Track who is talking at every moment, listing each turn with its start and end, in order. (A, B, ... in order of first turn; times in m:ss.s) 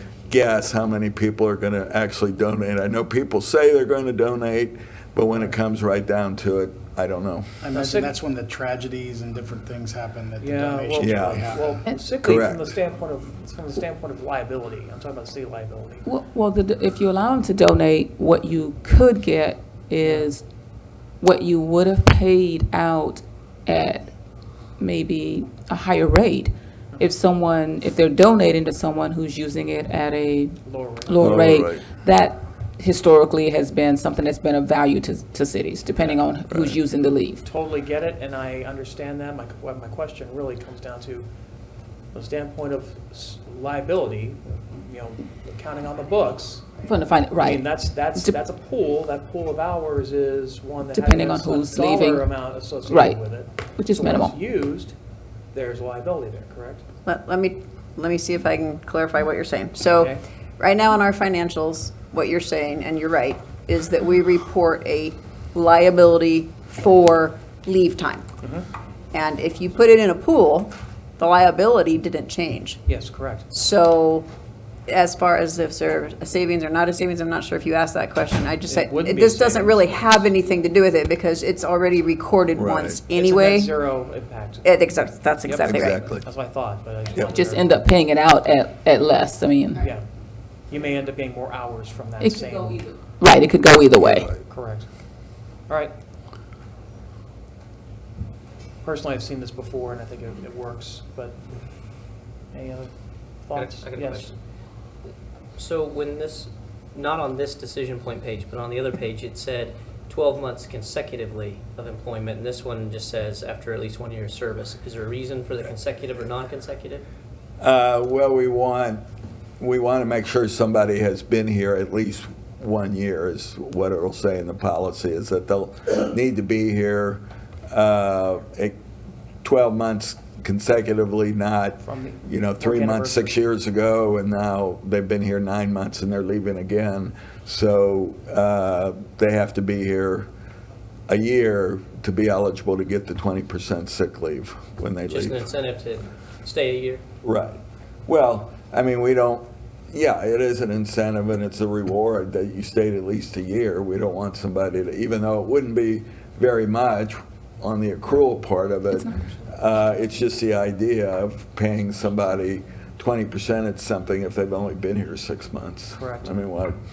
0:00.3-0:07.5 A
0:07.6-0:11.8 B
0:07.7-0:08.1 C
0:10.4-0:16.0 C
0:11.0-0:11.4 A
0:12.2-0:12.6 A
0:16.0-0:20.5 D
0:20.0-0:20.3 C
0:21.2-0:24.1 D
0:24.8-0:37.4 D
0:30.6-0:31.3 C
0:31.2-0:31.8 A
0:36.5-0:36.8 A
0:37.4-0:41.3 C
0:42.1-0:46.8 C
0:46.8-0:48.4 D
0:47.4-0:55.0 C
0:50.9-0:52.3 D
0:52.9-0:54.3 D
0:55.5-0:56.8 C
0:57.0-1:08.3 E
0:59.9-1:00.2 C
1:08.4-1:08.7 C
1:09.1-1:12.8 E
1:12.9-1:13.5 C
1:13.5-1:14.3 E
1:14.9-1:23.7 E
1:18.7-1:20.2 C
1:22.6-1:23.0 A
1:23.1-1:24.7 C
1:24.6-1:26.0 E
1:25.5-1:27.8 C
1:25.5-1:26.1 D
1:25.6-1:26.2 A
1:27.2-1:29.8 D
1:30.6-1:32.8 C
1:32.2-1:34.3 D
1:34.0-1:34.4 A
1:34.4-1:34.9 C
1:35.7-1:35.9 C
1:38.8-1:44.3 C
1:43.5-1:44.4 F
1:45.6-1:57.0 F
1:57.6-1:59.0 A
1:59.6-2:08.8 A
2:09.4-2:20.3 A
2:11.8-2:13.4 C
2:21.1-2:25.4 A
2:25.1-2:27.0 F
2:27.2-2:46.8 A
2:46.0-2:46.4 C